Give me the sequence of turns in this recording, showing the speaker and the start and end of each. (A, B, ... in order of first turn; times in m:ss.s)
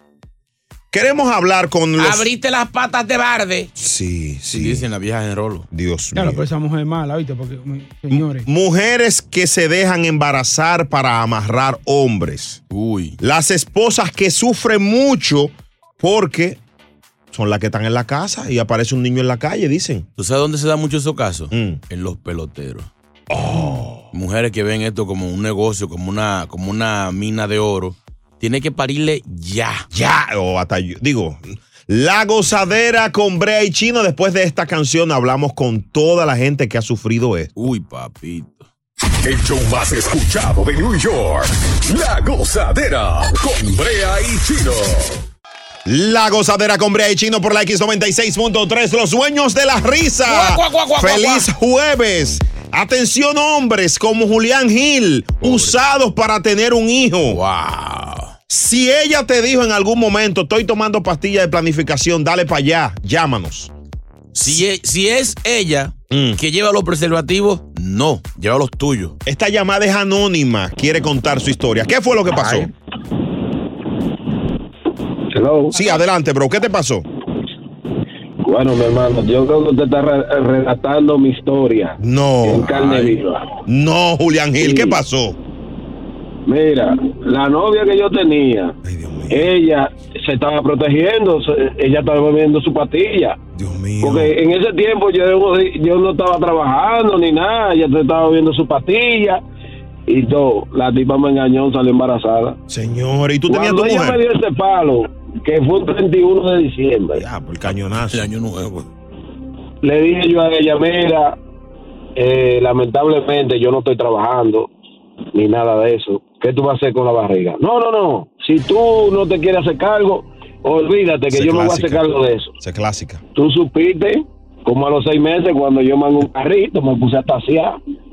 0:00.9-0:02.3 A
0:02.0-0:03.7 B
0:03.8-0:04.8 A
0:04.5-0:05.7 B
0:05.7-0:06.4 A
0:06.2-0:08.5 C
0:08.1-0:12.6 A
0:12.7-0:13.2 B
0:13.2-0:16.6 A
0:17.3-0:20.1 A
0:20.2-0:22.9 B
0:21.5-0:21.8 A
0:23.3-0:24.1 A
0:24.1-0:29.9 B
0:29.9-0:37.5 A
0:37.6-0:38.7 B
0:39.2-0:45.2 D
0:45.9-0:57.4 A
0:50.3-0:51.5 B
0:55.4-0:55.8 B
0:57.3-0:58.4 B
0:58.5-1:03.7 A
1:04.3-1:09.2 B
1:06.1-1:06.4 A
1:09.3-1:12.7 A
1:12.3-1:12.7 B
1:15.3-1:15.8 E
1:15.7-1:17.1 A
1:18.4-1:23.4 E
1:22.0-1:23.2 A
1:23.7-1:25.4 A
1:24.6-1:25.0 E
1:26.5-1:28.8 E
1:28.8-1:29.5 A
1:29.3-1:33.4 E
1:33.6-1:34.3 A
1:34.0-1:39.4 E
1:40.1-1:42.6 E
1:42.7-1:44.2 A
1:43.5-1:47.2 E
1:47.2-1:48.9 A
1:48.0-1:48.7 B
1:49.8-1:51.4 E
1:52.2-1:54.7 E
1:55.3-2:02.5 E
2:01.3-2:02.0 A
2:02.6-2:03.2 A
2:03.4-2:07.8 E